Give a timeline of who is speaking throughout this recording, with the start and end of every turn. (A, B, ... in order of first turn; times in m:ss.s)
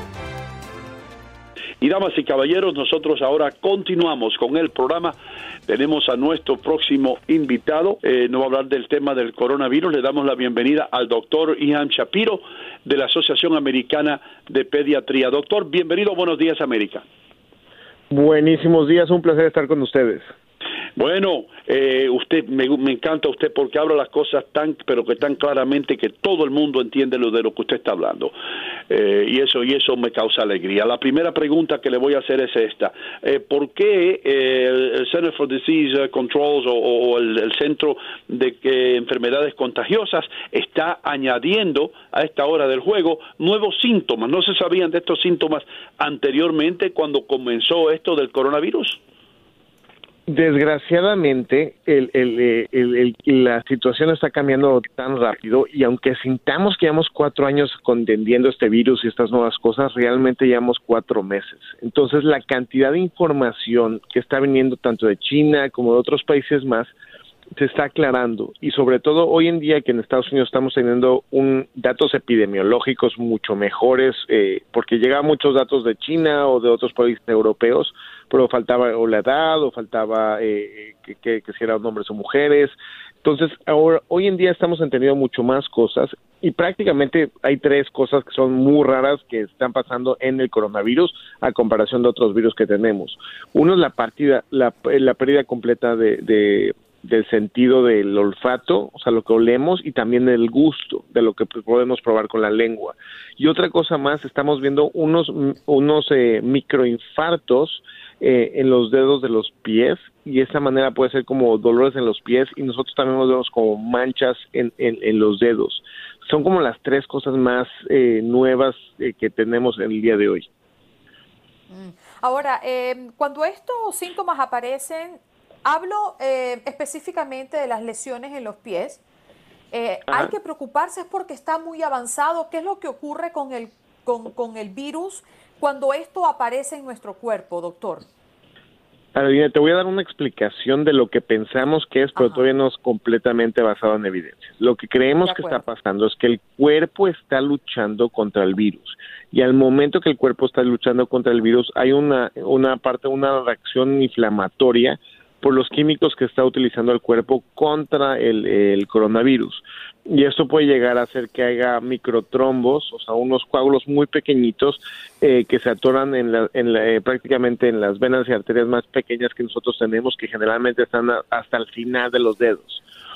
0:01.8-0:05.2 A
0:05.7-0:17.0 A
0:18.1-0:20.2 B
0:21.0-0:28.3 A
0:28.9-0:49.0 A
0:50.3-1:06.9 B
1:07.6-2:00.5 B
2:01.7-2:09.0 C
2:09.7-2:18.1 C
2:19.2-2:52.8 B
2:22.2-2:22.4 C
2:25.2-2:25.6 C